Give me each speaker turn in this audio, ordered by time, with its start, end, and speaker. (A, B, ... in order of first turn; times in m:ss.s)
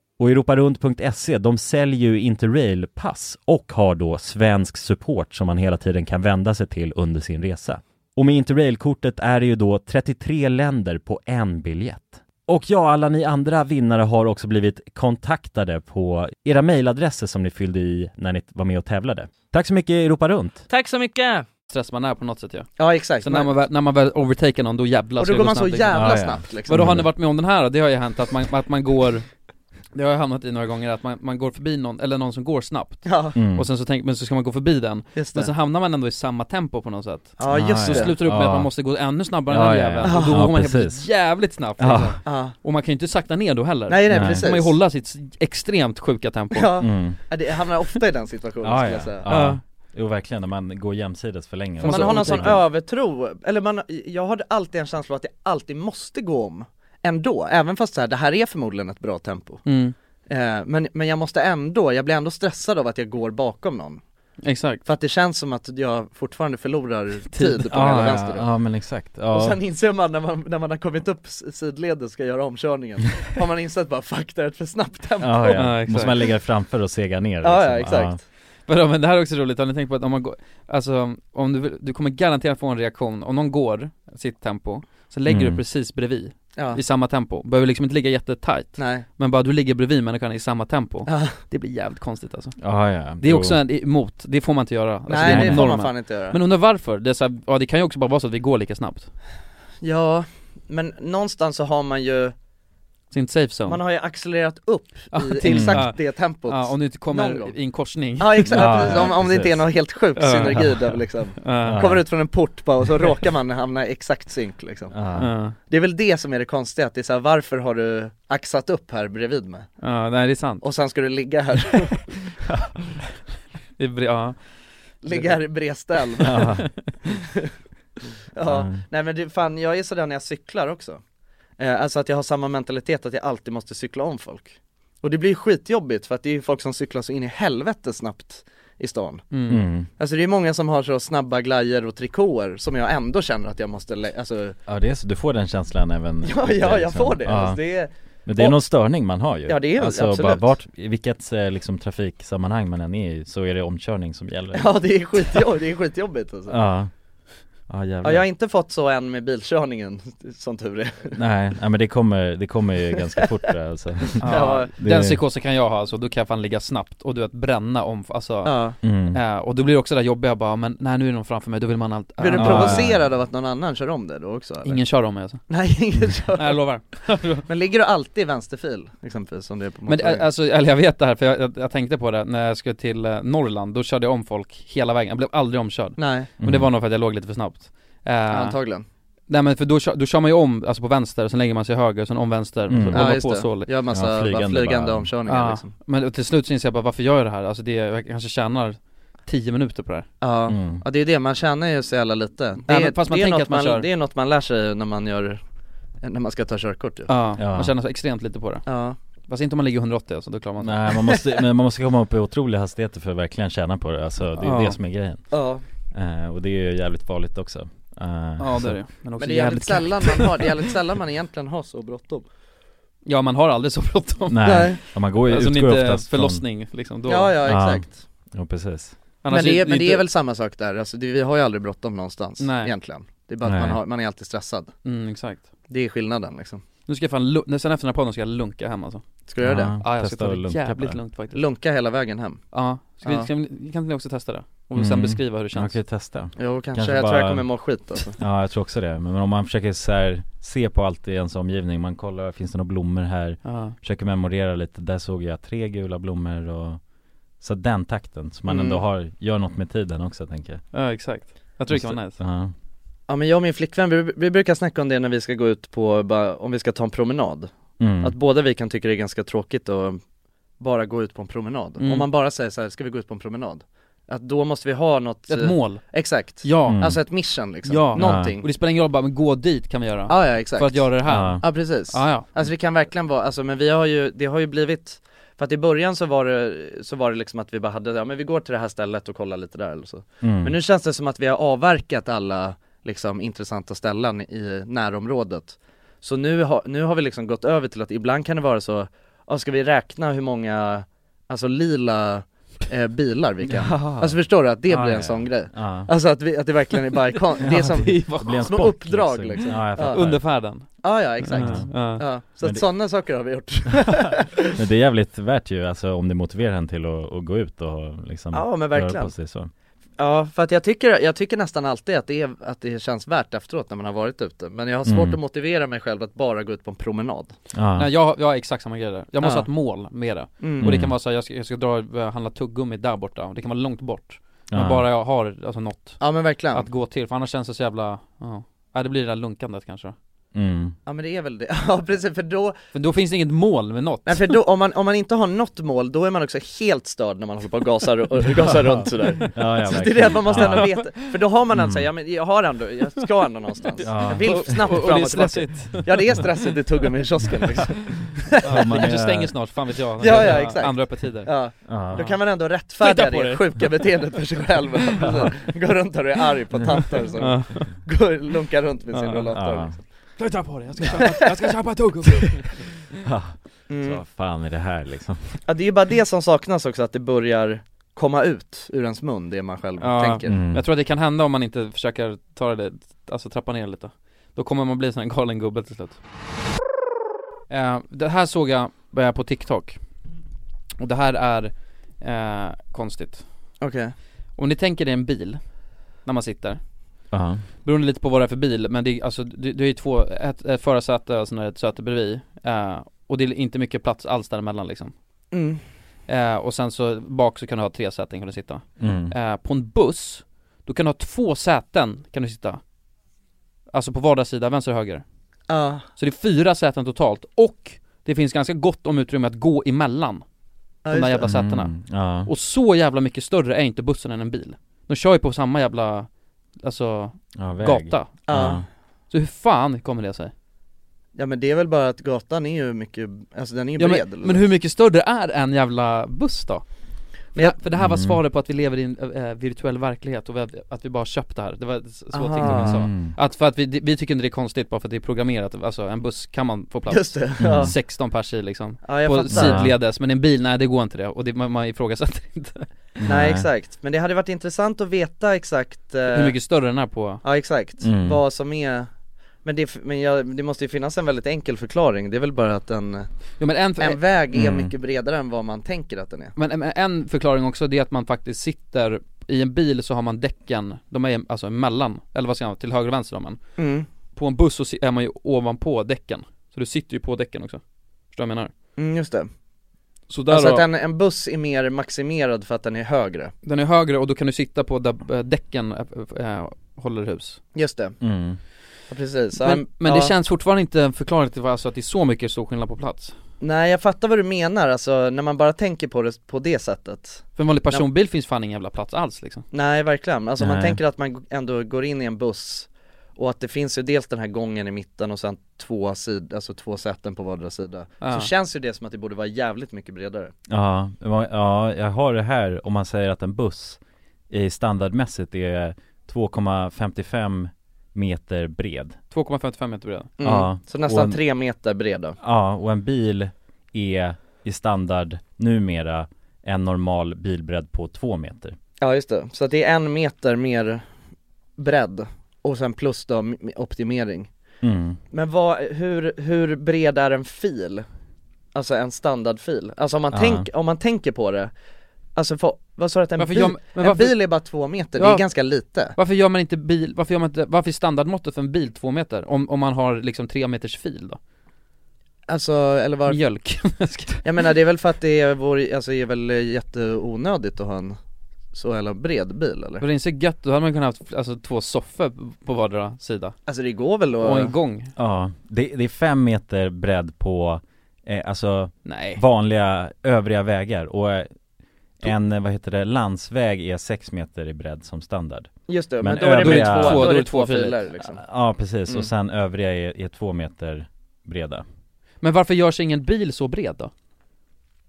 0:00.2-0:20.6 A
0:20.7-0:21.5 B
0:21.7-0:29.3 C
0:22.8-0:23.5 B
0:25.2-0:27.0 B
0:25.9-0:27.1 A
0:29.9-0:46.8 C
0:33.0-0:33.4 B
0:33.4-0:33.7 A
0:35.2-0:35.5 B
0:37.4-0:38.1 B
0:37.5-0:38.7 A
0:39.5-0:41.1 A
0:40.0-0:40.4 B
0:41.8-0:42.2 A
0:42.2-0:42.6 B
0:43.9-0:44.8 B
0:44.1-0:44.5 A
0:46.5-0:49.3 B
0:46.8-0:47.2 A
0:48.6-0:52.6 A
0:49.3-0:49.6 C
0:51.8-0:52.5 C
0:51.8-0:59.6 B
0:59.7-1:00.0 C
1:00.3-1:04.0 B
1:04.4-1:04.8 C
1:04.9-1:08.5 B
1:07.3-1:07.7 C
1:07.7-1:09.6 A
1:09.3-1:15.6 B
1:15.2-1:18.2 A
1:15.6-1:16.2 C
1:17.4-1:18.2 B
1:18.7-1:32.6 C
1:25.3-1:25.6 A
1:28.8-1:29.0 B
1:31.1-1:31.4 B
1:32.6-1:33.6 A
1:33.2-1:39.1 C
1:35.1-1:36.4 B
1:35.2-1:35.7 A
1:39.8-1:42.3 B
1:43.1-1:43.8 C
1:43.7-1:47.5 B
1:45.1-1:49.2 C
1:45.5-1:45.8 A
1:48.2-1:54.9 B
1:48.5-1:49.6 A
1:50.2-1:51.8 C
1:51.6-1:52.0 A
1:54.9-1:55.3 A
1:55.2-1:55.6 C
1:55.6-1:59.7 B
1:59.8-2:00.6 C
2:00.6-2:02.2 B
2:03.8-2:04.4 C
2:05.0-2:06.5 B
2:06.2-2:06.7 A
2:07.1-2:07.5 B
2:08.3-2:11.0 B
2:08.4-2:08.8 A
2:11.6-2:19.2 B
2:19.3-2:19.7 C
2:19.5-2:19.9 A
2:20.0-2:24.6 B
2:24.7-2:27.6 A
2:26.2-2:28.6 B
2:28.3-2:34.7 A
2:29.5-2:30.5 B
2:34.6-2:36.6 B
2:36.5-2:36.9 A
2:37.7-2:38.2 A
2:38.0-2:41.2 B
2:41.2-2:45.2 A
2:44.2-2:44.7 B
2:44.2-2:52.9 C
2:48.4-2:48.8 B
2:48.8-2:49.2 A
2:52.2-2:54.8 B
2:52.4-2:53.0 A
2:54.6-2:55.5 C
2:55.5-2:56.6 B
2:56.4-2:57.5 C
2:57.5-3:00.2 B
2:59.9-3:08.6 C
3:06.0-3:06.3 B
3:06.4-3:06.7 A
3:08.3-3:08.8 B
3:09.3-3:13.7 C
3:12.7-3:13.1 A
3:12.9-3:15.7 B
3:13.9-3:15.1 A
3:15.3-3:20.1 C
3:20.2-3:25.4 B
3:20.5-3:20.8 A
3:22.7-3:23.9 C
3:26.0-3:27.1 B
3:27.1-3:28.7 C
3:27.4-3:27.7 A
3:28.7-3:29.0 B
3:29.3-3:30.9 C
3:30.6-3:35.3 A
3:34.4-3:34.8 C
3:35.3-3:35.6 B
3:35.9-3:38.8 A
3:38.4-3:40.6 C
3:39.2-3:42.2 B
3:43.1-3:47.4 C
3:44.3-3:46.4 A
3:44.4-3:44.8 B
3:47.1-3:48.0 B
3:47.4-3:49.0 A
3:49.2-3:50.0 C
3:49.3-3:54.7 B
3:52.4-3:52.7 C
3:53.4-3:53.8 A
3:54.8-3:55.5 C
3:55.7-3:56.6 B
3:56.9-3:59.0 C
3:59.3-3:59.8 B
3:59.4-4:01.0 A
3:59.8-4:01.4 C
4:01.3-4:02.4 B
4:02.5-4:05.8 C
4:04.8-4:07.5 A
4:06.4-4:08.2 B
4:08.2-4:16.8 A
4:13.4-4:13.8 C
4:17.4-4:20.6 A
4:18.5-4:18.8 B
4:20.7-4:22.2 C
4:21.7-4:22.5 A
4:23.1-4:27.5 B
4:27.8-4:28.1 A
4:28.0-4:30.0 B
4:30.6-4:38.5 B
4:31.8-4:32.1 C
4:35.3-4:36.8 C
4:36.7-4:37.0 A
4:37.7-4:42.3 C
4:38.0-4:38.3 A
4:40.1-5:10.0 B
4:41.1-4:41.4 A
4:50.2-4:50.6 A
5:03.5-5:04.2 A
5:04.7-5:05.9 A
5:07.4-5:08.7 C
5:07.4-5:10.2 A
5:09.9-5:12.0 C
5:10.8-5:14.5 B
5:11.3-5:11.8 A
5:14.6-5:19.5 A
5:18.3-5:19.1 B
5:20.0-5:27.3 B
5:24.8-5:25.2 A
5:27.5-5:27.9 A
5:27.8-5:40.0 C
5:29.2-5:29.5 B
5:30.4-5:30.7 B
5:30.6-5:30.9 A
5:34.5-5:34.9 A
5:36.0-5:36.7 B
5:40.4-5:40.8 A
5:40.9-5:42.6 B
5:42.7-5:44.4 C
5:44.1-5:58.7 B
5:49.3-5:50.7 A
5:50.3-5:50.8 C
5:51.5-5:51.9 A
5:53.8-5:54.7 A
5:54.0-5:56.3 C
5:58.4-5:59.3 A
5:58.4-6:01.3 C
6:00.0-6:09.8 B
6:01.7-6:02.0 A
6:02.8-6:03.9 C
6:07.2-6:07.7 C
6:08.9-6:09.3 C
6:09.3-6:09.8 A
6:10.2-6:12.9 C
6:13.0-6:15.4 A
6:13.7-6:14.0 B
6:15.5-6:20.4 B
6:19.8-6:26.0 C
6:20.3-6:20.6 A
6:27.5-6:29.8 C
6:30.8-6:33.2 C
6:33.6-6:34.0 B
6:34.4-6:35.4 C
6:36.0-6:36.6 C
6:37.1-6:37.4 A
6:37.6-6:44.9 C
6:45.3-6:45.6 B
6:46.1-6:52.6 C
6:48.8-6:49.1 A
6:53.7-6:55.0 C
6:55.5-6:55.8 B
6:56.0-7:00.2 C
7:00.8-7:01.3 B
7:00.9-7:01.7 C
7:01.2-7:02.3 A
7:02.3-7:06.1 C
7:06.6-7:08.2 C
7:07.4-7:08.6 A
7:08.3-7:08.6 B
7:09.1-7:10.3 C
7:11.2-7:14.4 B
7:13.8-7:16.6 C
7:17.4-7:32.7 C
7:17.8-7:18.2 A
7:22.1-7:22.8 B
7:22.4-7:23.2 A
7:26.9-7:27.7 B
7:27.4-7:27.7 A
7:28.8-7:29.6 B
7:29.3-7:29.8 A
7:33.0-7:33.5 A
7:33.1-7:36.4 B
7:36.1-7:37.2 C
7:37.2-7:38.9 B
7:37.8-7:38.2 A
7:39.4-7:43.1 B
7:43.4-7:44.0 C
7:43.8-7:46.3 B
7:44.3-7:44.7 A
7:46.4-7:53.4 C
7:53.6-7:53.9 B
7:54.2-7:57.6 C
7:58.1-7:58.5 C
7:58.8-7:59.3 B
8:00.1-8:00.6 C
8:00.3-8:03.3 B
8:03.4-8:07.4 C
8:07.6-8:08.0 B
8:08.0-8:08.4 A
8:08.9-8:10.1 B
8:09.4-8:13.2 C
8:13.4-8:17.8 B
8:17.4-8:19.5 C
8:19.5-8:30.3 B
8:20.4-8:20.8 A
8:28.0-8:28.3 C
8:30.5-8:33.8 A
8:34.3-8:39.0 A
8:39.1-8:40.1 C
8:40.2-8:42.2 B
8:40.2-8:41.2 A
8:42.2-8:48.6 A
8:48.8-8:50.8 B
8:51.6-8:54.3 B
8:54.6-8:55.0 A
8:55.1-8:57.8 B
8:58.5-9:01.5 B
9:00.1-9:00.5 A
9:02.2-9:06.0 B
9:03.2-9:04.2 C
9:05.0-9:05.2 C
9:06.0-9:11.2 C
9:12.3-9:13.2 B
9:13.1-9:14.2 C
9:14.2-9:18.0 B
9:18.5-9:19.8 B
9:19.8-9:23.4 C
9:23.5-9:24.5 B
9:24.2-9:24.9 C
9:25.0-9:31.3 A
9:28.8-9:29.2 C
9:32.0-9:37.1 A
9:35.7-9:38.2 B
9:36.4-9:37.8 C
9:38.2-9:41.6 A
9:42.2-9:43.9 C